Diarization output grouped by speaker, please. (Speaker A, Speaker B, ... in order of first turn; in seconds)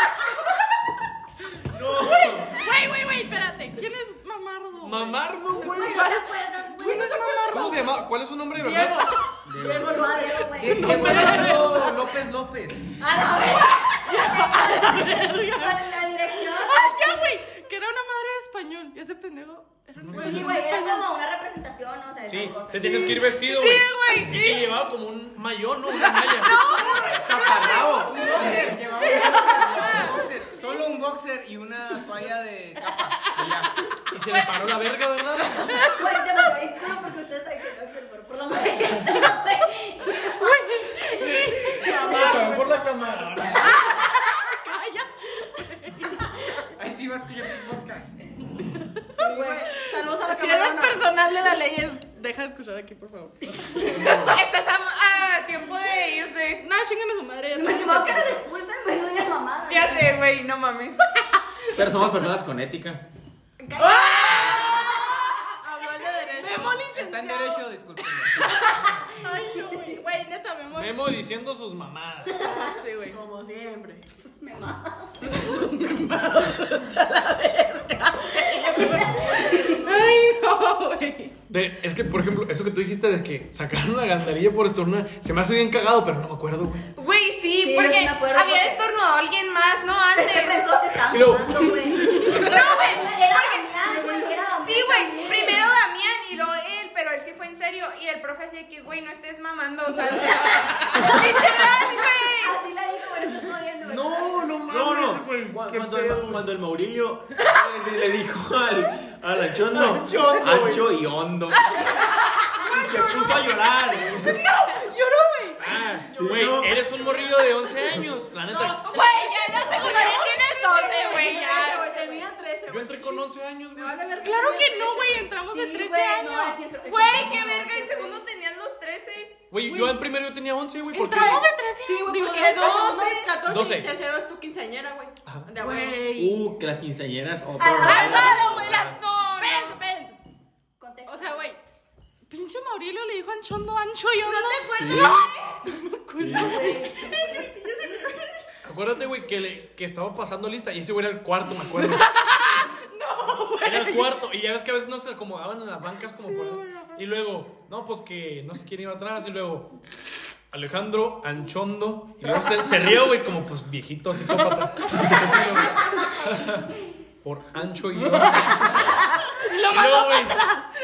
Speaker A: 1.8-2.3, 4.8-6.1, 7.5-9.1, 20.0-20.4, 22.3-26.5, 34.1-35.8, 41.3-43.7, 70.7-72.5, 81.5-86.8, 91.1-92.4, 103.8-106.4, 109.7-110.9, 115.6-118.9, 122.7-124.2, 129.5-131.4, 133.4-133.9, 148.6-152.1, 153.6-159.7, 160.5-166.7, 167.2-168.9, 169.6-170.4
Speaker B: 2.4-6.2, 6.8-7.9, 10.8-12.0, 13.4-15.8, 16.6-21.2, 22.7-24.7, 25.9-28.5, 29.1-30.2, 32.9-33.5, 34.3-36.2, 40.4-41.7, 43.6-46.2, 48.6-49.0, 50.1-54.1, 56.6-58.4, 63.8-65.3, 66.4-67.7, 68.4-71.1, 72.4-73.2, 75.2-79.2, 79.7-81.3, 114.4-115.6, 124.2-126.6, 129.6-130.0, 130.9-133.2, 135.6-136.4, 137.8-140.2, 141.1-141.6, 142.3-146.8, 151.8-154.1, 168.3-170.7
Speaker C: 5.5-7.7, 9.6-11.7, 13.1-17.3, 20.1-23.2, 35.8-42.6, 49.2-49.7, 57.5-60.2, 63.6-65.1, 72.4-72.7, 74.3-75.6, 78.6-80.0, 87.6-88.8, 90.1-95.7, 100.1-104.8, 120.0-121.2, 121.7-122.2, 125.5-128.2, 137.6-138.3, 140.8-141.5, 146.2-147.5
Speaker D: 6.8-7.9, 8.5-11.7, 27.4-28.6, 41.7-42.9, 49.1-51.0, 65.6-66.9, 73.1-74.0, 78.5-79.8, 115.9-117.8, 118.4-125.3, 131.1-136.1, 138.7-139.6, 146.3-148.2
Speaker E: 9.5-10.0, 27.0-28.4, 61.7-63.0, 104.7-111.9, 112.6-114.4, 116.1-116.7, 136.1-138.9, 144.8-145.1
Speaker F: 10.6-12.8, 28.1-33.7, 46.8-48.1, 66.9-68.7
Speaker G: 26.4-28.0, 53.9-56.6, 59.7-61.1, 64.0-64.8, 87.0-90.8, 92.3-102.6, 118.9-122.1, 126.8-129.4, 137.9-138.9, 144.2-145.5